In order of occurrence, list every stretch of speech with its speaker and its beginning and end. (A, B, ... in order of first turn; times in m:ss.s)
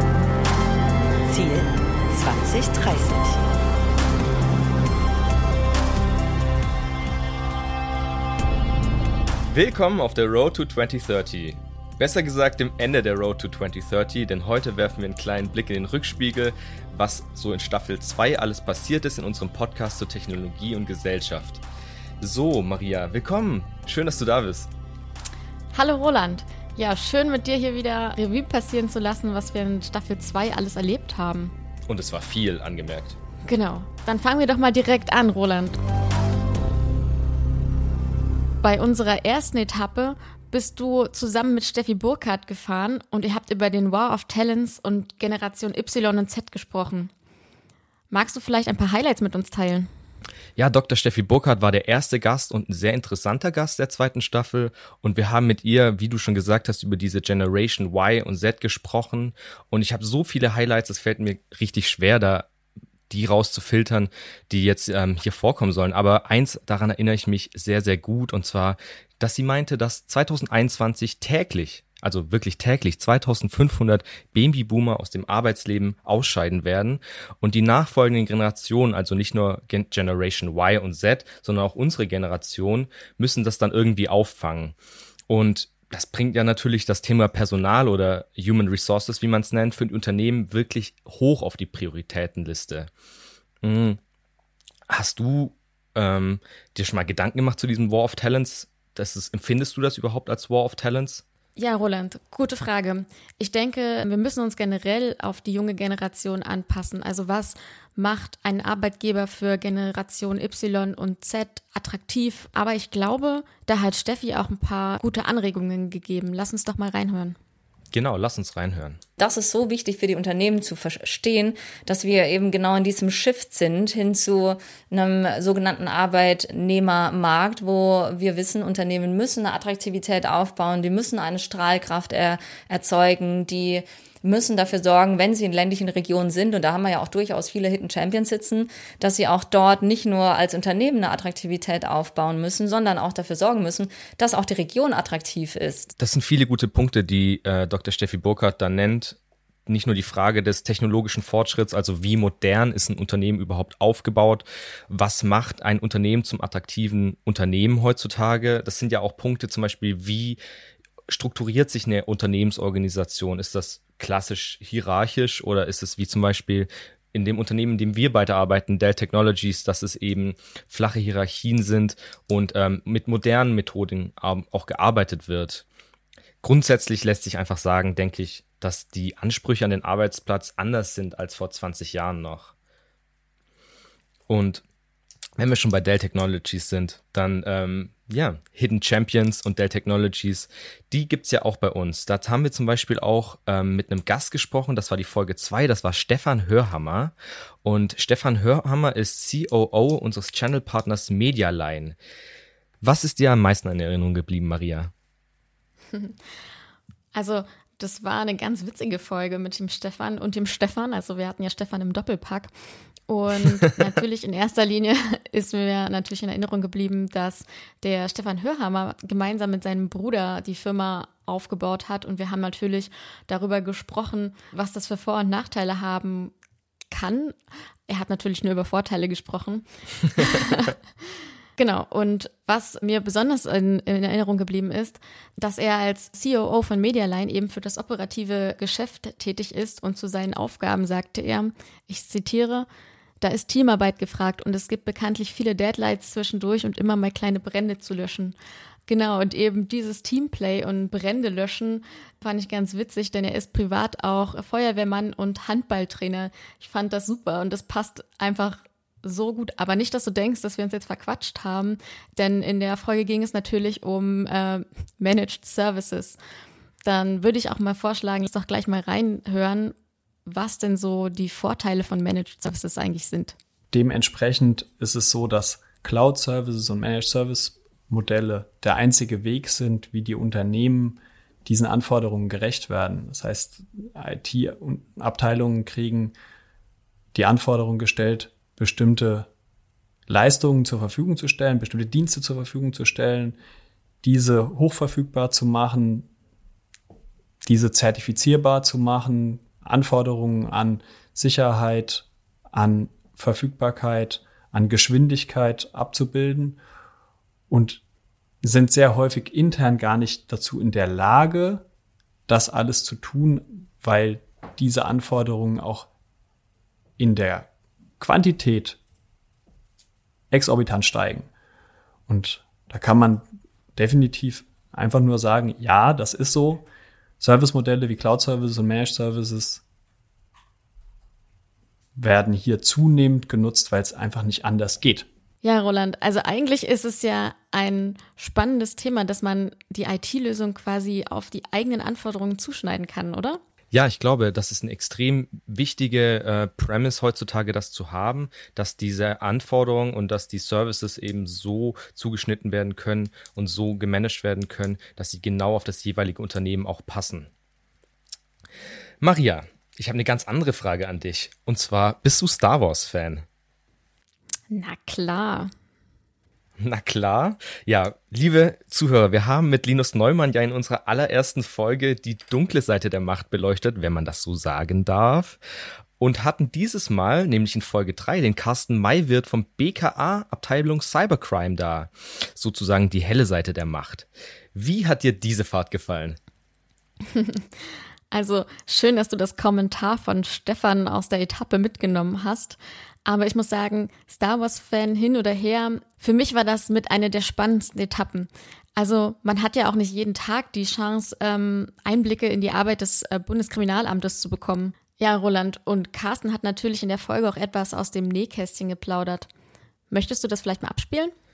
0:01.3-0:03.4 A
0:09.5-0:21.6 B
0:22.2-0:24.7 B
0:25.7-0:31.5 C
0:31.9-0:33.2 B
0:33.4-0:35.8 C
0:38.6-0:47.1 C
0:48.1-0:49.9 C
0:50.6-1:02.5 B
1:03.1-1:24.8 B
1:25.3-1:32.9 B
1:33.6-1:34.0 B
1:34.9-1:41.2 B
1:41.6-1:57.4 C
1:57.9-1:59.0 B
1:59.2-2:25.9 D
2:26.0-2:40.4 B
2:41.1-2:55.6 B
2:56.4-3:02.5 B
3:04.3-3:04.6 B
3:05.4-3:22.0 B
3:22.8-3:24.9 B
3:27.1-3:32.5 C
3:33.1-3:46.3 C
3:46.9-3:47.4 C
3:47.9-3:50.8 C
3:51.6-4:02.7 C
4:03.2-4:08.4 C
4:08.9-4:26.2 C
4:26.8-4:29.8 C
4:30.3-4:33.4 C
4:33.7-4:46.2 E
4:47.1-4:49.3 E
4:50.1-4:53.4 E
4:54.0-4:56.1 E
4:57.4-5:06.6 E
5:07.5-5:07.8 E
5:08.4-5:11.7 E
5:12.3-5:15.9 E
5:17.0-5:18.8 E
5:20.3-5:21.3 E
5:22.1-5:26.7 E
5:27.2-5:29.6 E
5:32.0-5:35.1 E
5:35.4-5:43.4 C
5:43.7-5:57.3 B
5:59.0-6:03.2 B
6:04.5-6:05.5 C
6:06.6-6:15.4 B
6:16.0-6:26.2 B
6:27.2-6:27.4 C
6:28.1-6:49.3 C
6:49.9-6:51.1 C